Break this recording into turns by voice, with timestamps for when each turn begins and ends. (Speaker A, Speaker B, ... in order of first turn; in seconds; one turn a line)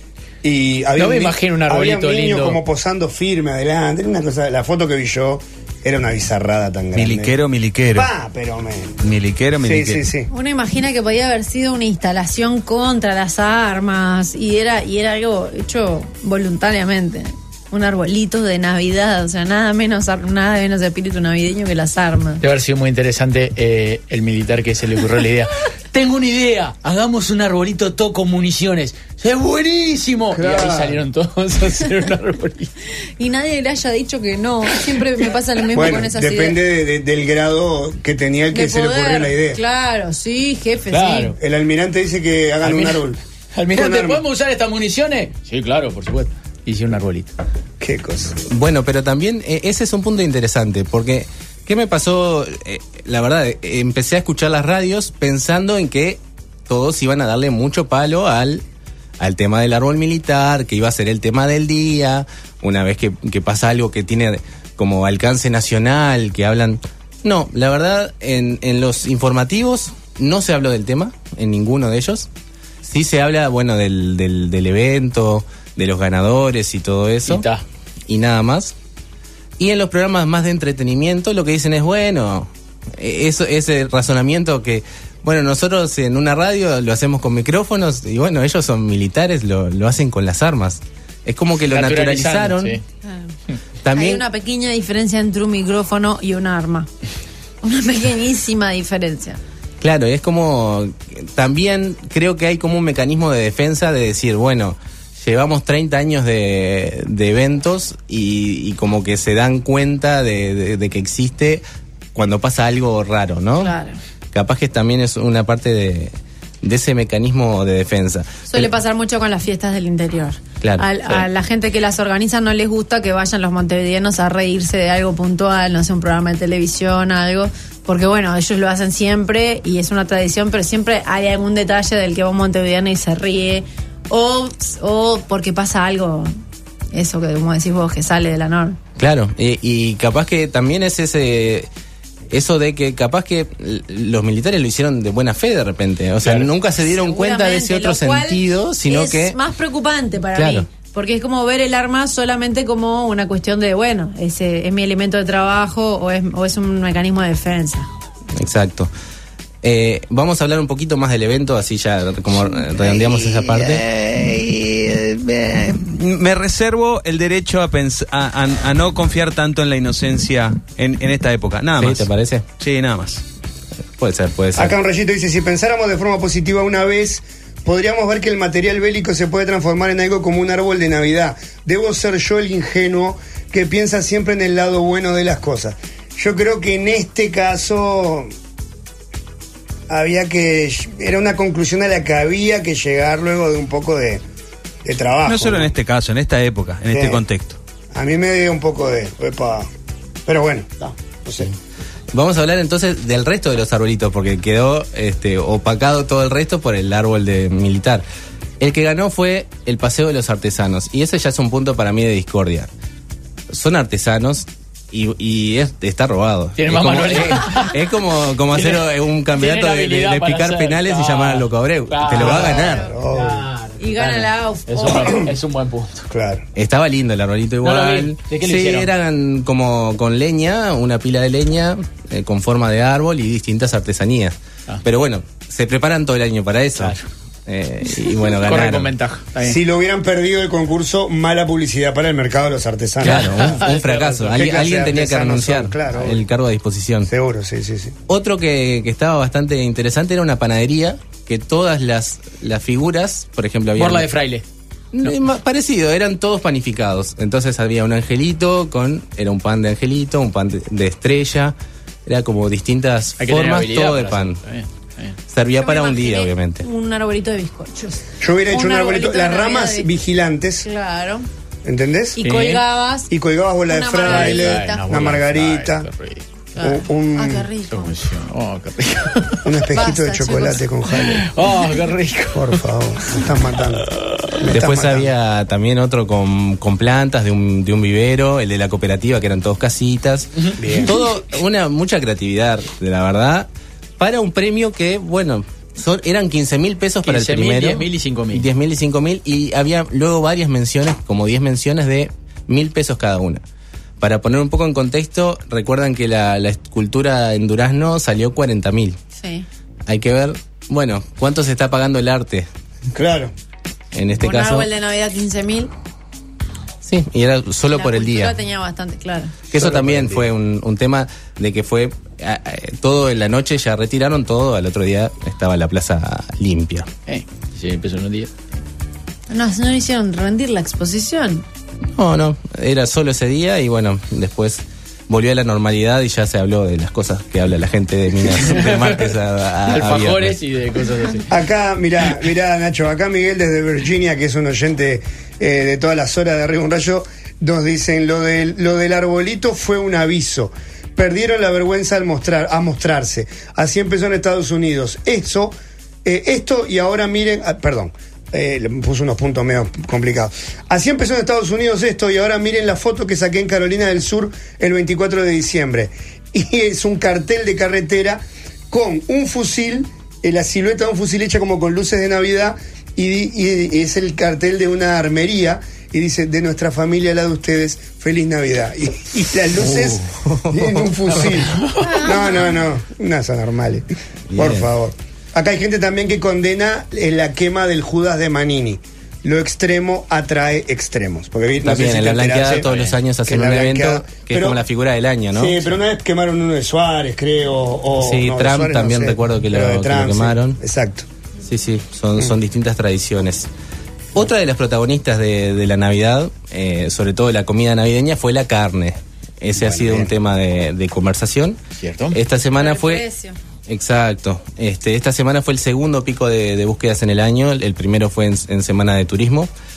Speaker A: 0.4-7.3
Speaker B: 0.9-2.6
Speaker C: 6.9-8.1
Speaker A: 7.9-8.9
Speaker C: 9.0-10.0
Speaker A: 9.6-10.3
Speaker D: 10.3-22.4
Speaker B: 22.4-32.7
Speaker A: 30.3-31.0
Speaker D: 33.2-36.6
Speaker A: 35.7-39.6
Speaker D: 38.5-41.3
Speaker B: 40.9-41.4
Speaker A: 41.4-43.2
Speaker B: 42.6-43.0
Speaker B: 43.5-47.3
Speaker A: 43.7-44.2
Speaker A: 47.8-48.4
Speaker E: 48.5-58.6
Speaker E: 59.2-72.3
Speaker E: 72.8-77.5
Speaker B: 77.2-77.6
Speaker E: 78.1-78.7
Speaker E: 79.6-92.8
Speaker B: 91.6-92.8
Speaker E: 93.8-94.2
Speaker D: 93.9-96.9
Speaker D: 97.6-99.4
Speaker E: 99.8-111.6
Speaker E: 112.1-113.7
Speaker D: 113.6-114.0
Speaker E: 114.3-118.7
Speaker D: 118.5-136.3
Speaker E: 120.6-120.8
Speaker D: 136.9-138.8
Speaker E: 139.0-141.7
Speaker E: 142.3-149.4
Speaker D: 146.8-157.9
Speaker E: 150.3-150.7
Speaker E: 158.3-158.9
Speaker E: 159.6-163.8
Speaker C: 165.7-172.1
Speaker E: 171.8-172.4
Speaker C: 172.6-173.2
Speaker E: 174.0-174.7
Speaker A: 174.6-188.3
Speaker A: 189.9-194.2
Speaker A: 194.8-195.7
Speaker C: 195.2-197.6
Speaker A: 196.9-197.2
Speaker A: 197.9-199.7
Speaker A: 200.2-201.5
Speaker E: 202.1-208.0
Speaker E: 208.6-212.7
Speaker E: 213.5-222.8
Speaker B: 216.6-217.7
Speaker B: 218.5-226.1
Speaker A: 222.2-223.4
Speaker D: 222.5-222.9
Speaker D: 223.8-225.2
Speaker A: 226.1-226.4
Speaker E: 226.6-238.9
Speaker B: 227.6-228.9
Speaker B: 236.7-237.0
Speaker B: 238.4-239.6
Speaker A: 239.4-243.7
Speaker B: 243.0-244.4
Speaker E: 243.0-247.1
Speaker A: 244.3-246.2
Speaker A: 247.1-247.9
Speaker E: 248.1-254.1
Speaker B: 253.8-254.4
Speaker E: 254.9-261.5
Speaker E: 262.1-264.4
Speaker B: 263.2-265.2
Speaker E: 265.3-266.6
Speaker D: 265.6-269.9
Speaker A: 268.2-270.7
Speaker D: 270.6-271.2
Speaker A: 271.6-272.2
Speaker D: 272.2-273.1
Speaker B: 272.2-272.6
Speaker A: 273.1-275.9
Speaker D: 273.7-274.8
Speaker B: 274.0-276.2
Speaker D: 276.6-278.0
Speaker A: 276.6-277.5
Speaker B: 277.7-279.5
Speaker A: 279.4-281.2
Speaker D: 279.7-280.6
Speaker B: 281.0-282.6
Speaker A: 282.3-283.9
Speaker A: 284.4-285.1
Speaker E: 284.5-293.5
Speaker A: 290.6-290.9
Speaker E: 294.0-303.4
Speaker B: 297.0-298.5
Speaker E: 304.0-309.0
Speaker D: 309.1-309.4
Speaker E: 309.9-312.5
Speaker A: 312.9-313.3
Speaker E: 313.9-314.7
Speaker D: 314.2-315.7
Speaker E: 316.8-318.3
Speaker D: 317.7-319.3
Speaker E: 319.5-326.9
Speaker A: 319.5-320.3
Speaker B: 327.1-328.3
Speaker D: 329.3-331.4
Speaker E: 331.9-340.4
Speaker B: 338.2-341.3
Speaker A: 341.3-392.7
Speaker E: 379.6-380.8
Speaker B: 381.1-382.0
Speaker D: 381.8-382.5
Speaker E: 384.3-384.7
Speaker E: 391.6-395.6
Speaker B: 392.6-393.0
Speaker A: 393.2-394.6
Speaker A: 395.3-401.1
Speaker E: 398.0-400.6
Speaker E: 401.4-403.5
Speaker E: 404.1-411.6
Speaker A: 409.5-410.1
Speaker B: 411.8-412.2
Speaker E: 412.1-413.0
Speaker D: 412.5-413.4
Speaker E: 413.7-419.5